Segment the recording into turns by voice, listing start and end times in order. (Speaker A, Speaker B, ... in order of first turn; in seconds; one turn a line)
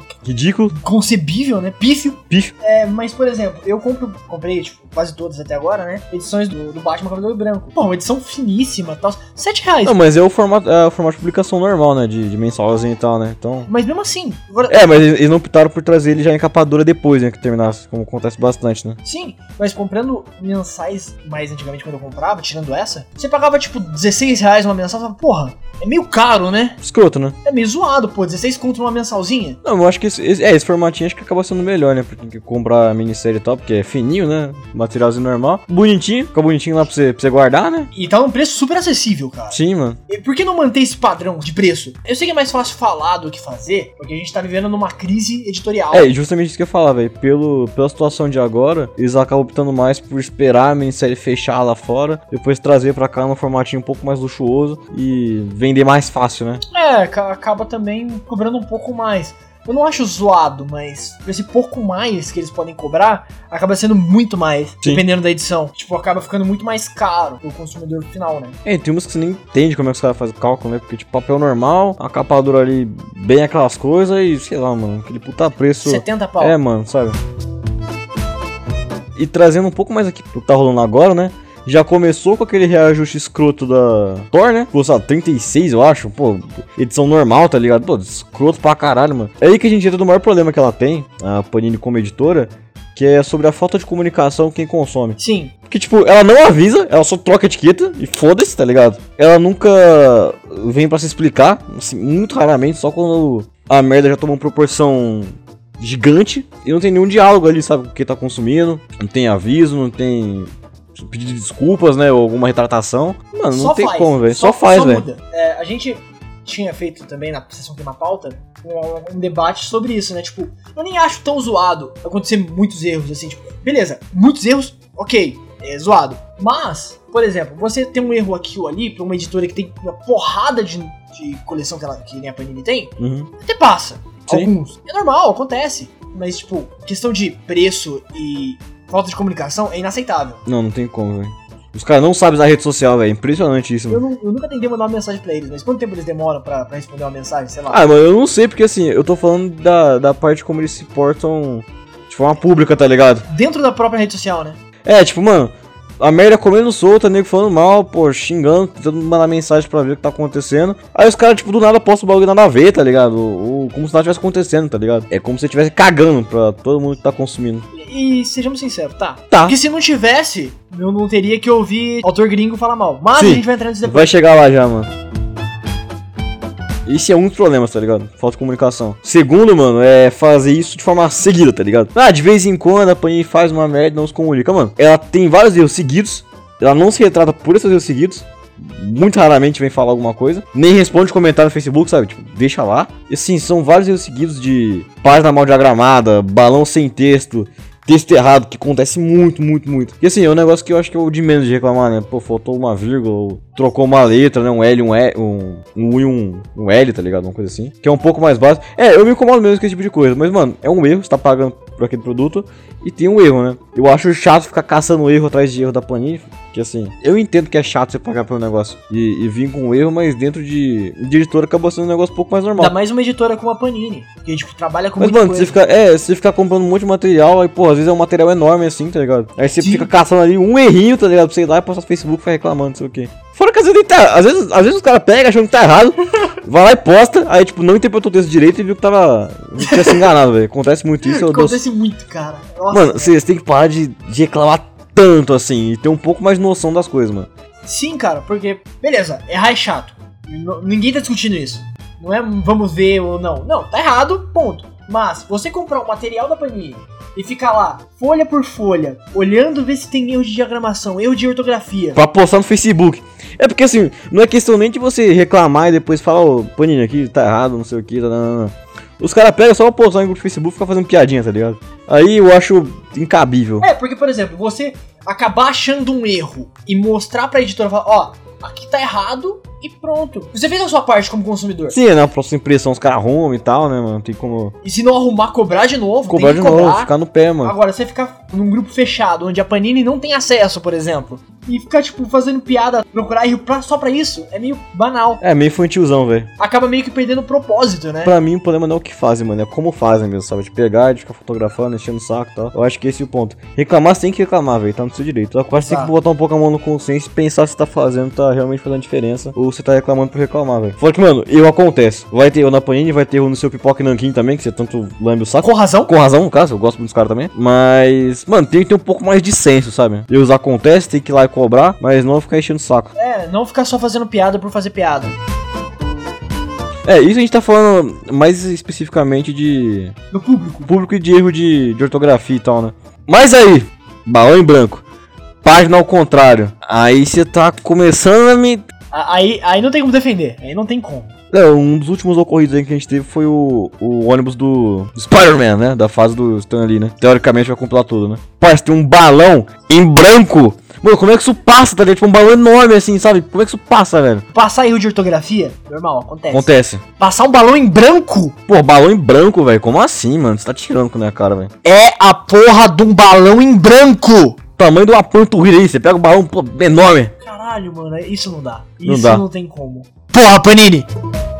Speaker A: 0.2-0.8
Speaker B: 0.7-10.0
Speaker A: 9.8-13.7
Speaker B: 13.7-14.9
Speaker A: 14.7-19.0
Speaker B: 19.0-26.8
Speaker A: 26.8-27.4
Speaker B: 27.4-29.6
Speaker A: 29.6-37.9
Speaker B: 37.9-46.1
Speaker A: 39.5-40.0
Speaker A: 45.9-56.6
Speaker B: 56.7-68.6
Speaker A: 68.7-77.2
Speaker B: 75.8-76.6
Speaker A: 79.2-95.2
Speaker B: 95.2-95.5
Speaker A: 95.7-115.1
Speaker B: 113.5-140.4
Speaker A: 133.0-133.3
Speaker A: 140.5-144.0
Speaker B: 143.9-147.8
Speaker A: 147.7-153.3
Speaker B: 153.3-154.6
Speaker A: 154.8-167.7
Speaker B: 167.7-174.1
Speaker A: 169.3-169.6
Speaker A: 173.2-174.9
Speaker A: 176.8-222.8
Speaker B: 222.6-225.6
Speaker A: 225.0-241.6
Speaker B: 229.6-229.9
Speaker B: 239.6-240.1
Speaker B: 241.0-243.1
Speaker A: 242.7-247.3
Speaker B: 247.6-262.0
Speaker A: 262.0-273.7
Speaker B: 273.6-281.8
Speaker A: 281.7-284.5
Speaker B: 284.6-286.9
Speaker A: 286.1-287.6
Speaker B: 287.4-295.2
Speaker A: 295.2-296.3
Speaker B: 296.4-298.1
Speaker A: 298.0-322.9
Speaker B: 305.5-305.9
Speaker B: 315.4-315.9
Speaker B: 323.0-325.1
Speaker A: 326.9-329.9
Speaker B: 330.1-330.7
Speaker A: 330.7-334.8
Speaker A: 335.4-338.6
Speaker B: 338.9-341.1
Speaker A: 341.3-354.2
Speaker B: 354.3-358.4
Speaker A: 356.3-356.8
Speaker A: 358.5-361.5
Speaker B: 361.6-364.4
Speaker A: 364.6-367.1
Speaker B: 367.2-370.9
Speaker A: 368.9-369.2